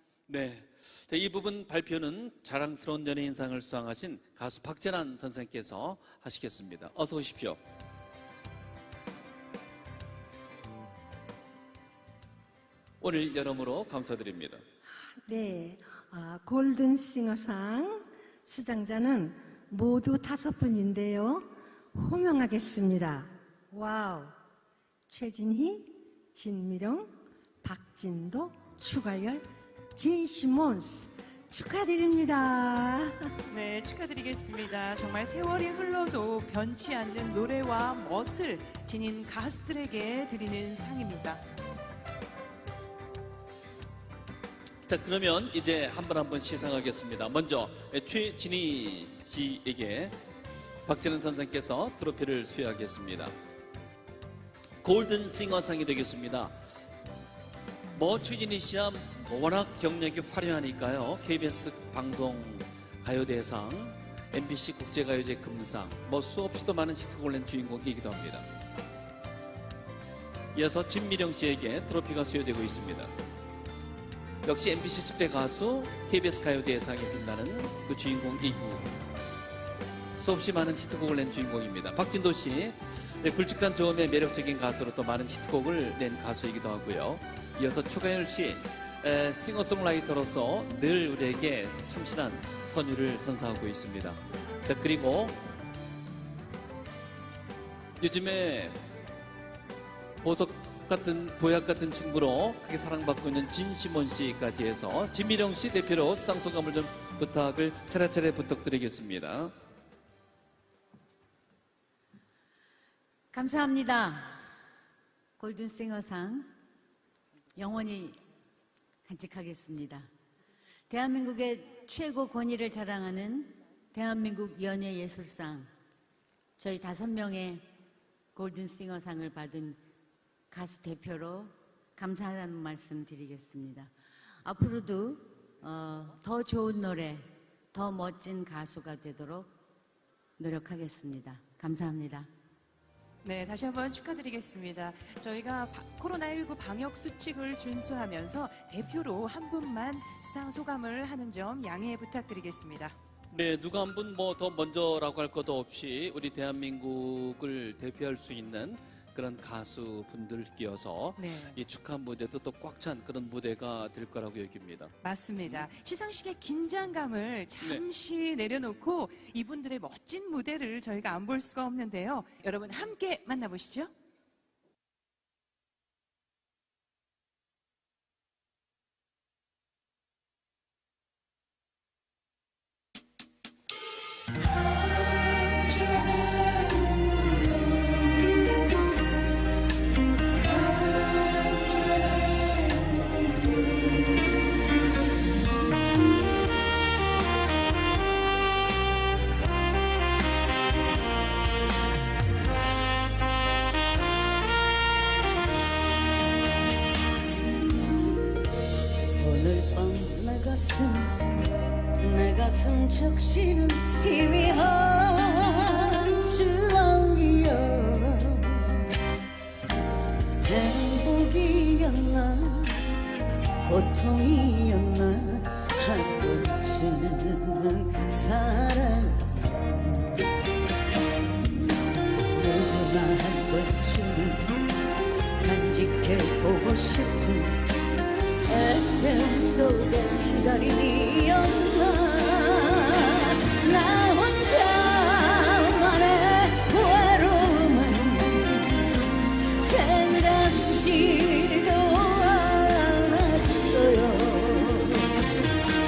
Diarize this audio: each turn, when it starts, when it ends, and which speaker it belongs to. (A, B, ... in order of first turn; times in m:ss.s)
0:00.3-0:07.6 A
0:13.0-0:14.6 A
0:15.2-0:24.4 B
0:25.1-0:33.3 B
0:33.5-0:41.4 C
0:44.9-0:50.1 A
0:50.9-0:53.3 A
0:54.8-0:56.5 A
0:58.0-1:08.4 A
1:10.6-1:13.1 A
1:14.4-1:18.9 A
1:20.2-1:35.4 A
1:38.0-1:38.8 A
1:40.2-1:49.5 A
1:53.3-1:54.4 D
1:55.4-1:56.5 D
1:57.6-1:58.2 D
1:59.0-2:00.1 D
2:00.9-2:05.7 D
2:06.6-2:07.6 D
2:08.4-2:09.8 D
2:10.5-2:13.9 D
2:14.4-2:19.5 D
2:20.4-2:22.3 D
2:23.2-2:33.0 C
2:33.3-2:44.9 A
2:41.2-2:41.6 C
2:45.0-2:53.9 C
3:29.2-3:31.2 E
3:32.0-3:33.4 D
3:33.4-3:38.8 E
3:40.4-3:43.0 E
3:43.6-3:50.0 E
3:52.3-3:54.6 E
3:55.4-3:57.6 E
3:58.5-4:00.6 E
3:59.7-4:02.9 D
4:01.8-4:02.6 E
4:03.1-4:08.7 E
4:04.7-4:05.5 D
4:09.5-4:11.0 E
4:09.9-4:15.1 D
4:13.1-4:13.9 E